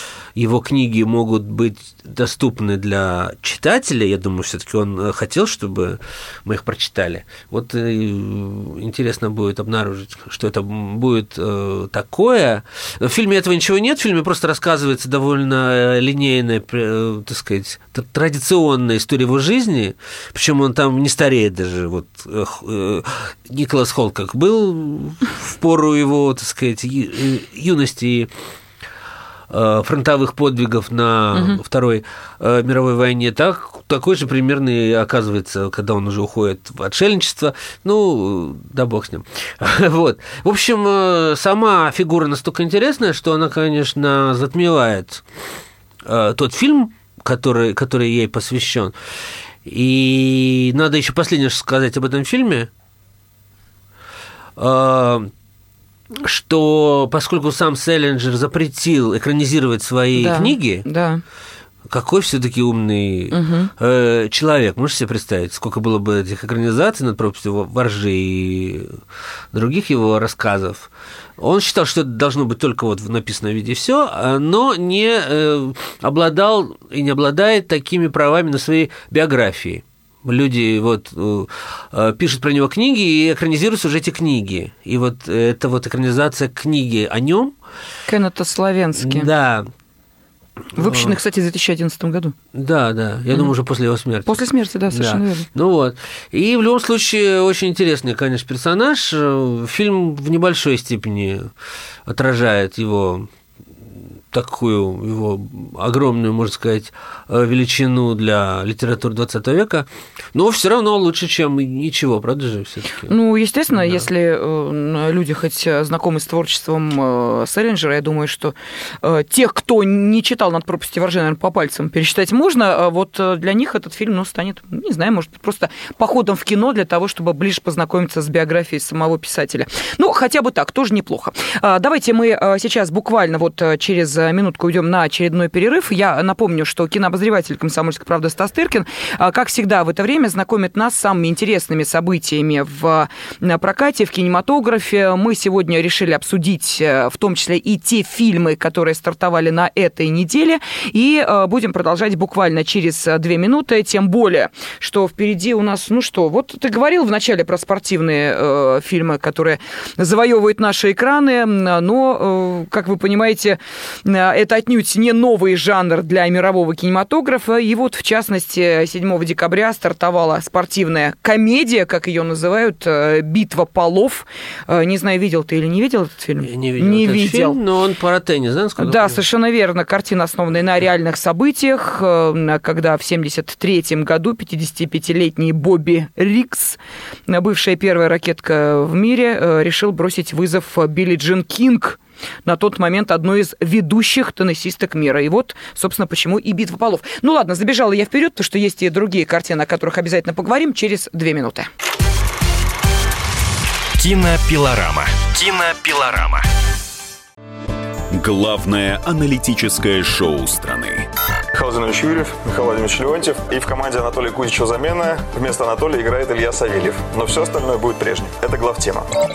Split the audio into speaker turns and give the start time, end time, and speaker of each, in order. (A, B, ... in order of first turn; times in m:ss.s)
0:00.4-0:28.3 A
0:29.5-0:45.2 A
0:46.0-0:48.9 A
0:49.6-0:52.7 A
0:54.6-0:55.3 A
0:56.1-1:00.9 A
1:00.2-1:01.2 B
1:01.9-1:09.0 A
1:03.3-1:03.7 B
1:09.5-1:27.6 A
1:28.1-1:29.3 B
1:29.0-1:29.7 A
1:30.8-1:31.2 A
1:30.8-1:32.4 B
1:32.5-1:41.5 A
1:34.3-1:35.5 B
1:42.1-1:43.3 A
1:44.3-1:53.1 A
1:53.1-2:57.6 B
2:56.4-2:59.2 A
2:58.8-3:21.7 B
3:24.0-3:26.5 C
3:28.1-3:31.1 D
3:31.5-3:39.1 E